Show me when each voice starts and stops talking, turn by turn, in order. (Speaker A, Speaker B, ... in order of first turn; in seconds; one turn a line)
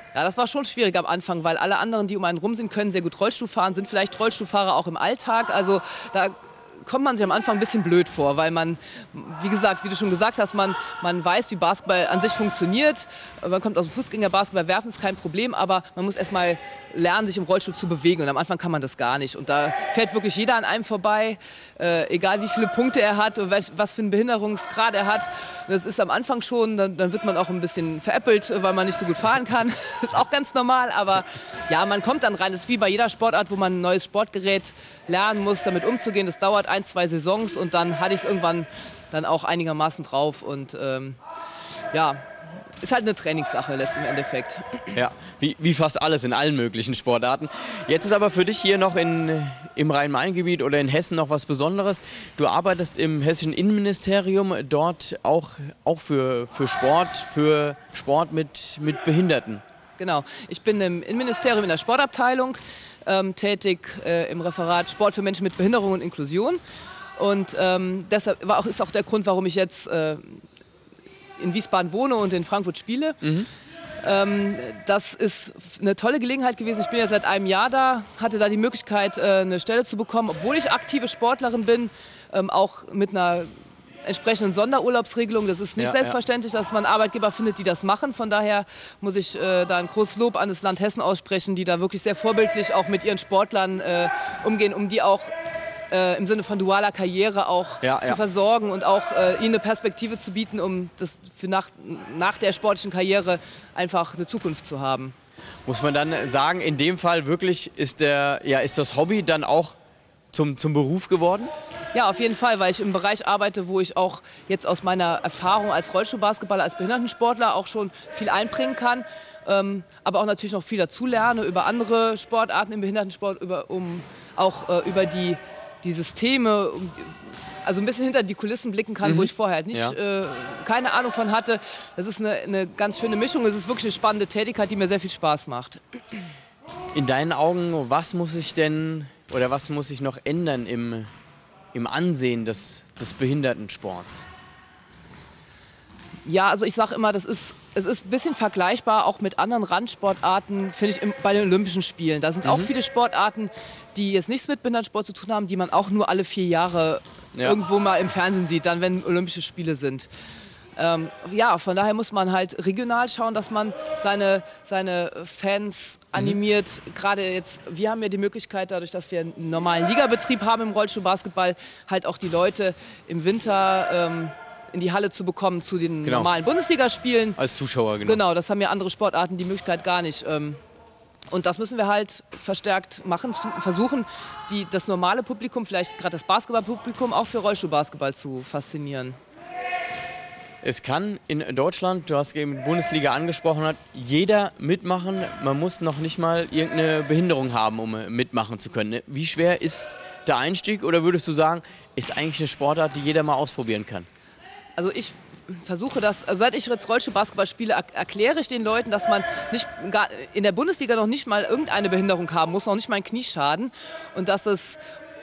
Speaker A: 0.1-41.2
Speaker A: 41.9-42.2
Speaker A: 42.8-44.9
Speaker B: 44.9-59.6
Speaker A: 60.0-66.6
Speaker A: 67.2-70.4
Speaker A: 71.4-73.2
Speaker B: 73.2-73.5
Speaker A: 74.0-83.5
Speaker A: 84.0-95.3
Speaker B: 85.8-86.2
Speaker A: 95.9-105.1
Speaker B: 97.8-98.2
Speaker B: 105.6-109.8
Speaker B: 110.3-111.5
Speaker A: 111.9-135.8
Speaker B: 129.0-129.9
Speaker B: 136.9-141.1
Speaker B: 141.7-144.3
Speaker A: 146.2-160.1
Speaker B: 152.4-152.7
Speaker A: 160.8-177.4
Speaker B: 176.0-176.3
Speaker B: 177.4-178.2
Speaker A: 178.0-180.6
Speaker A: 181.3-189.2
Speaker B: 190.6-204.1
Speaker A: 204.8-214.8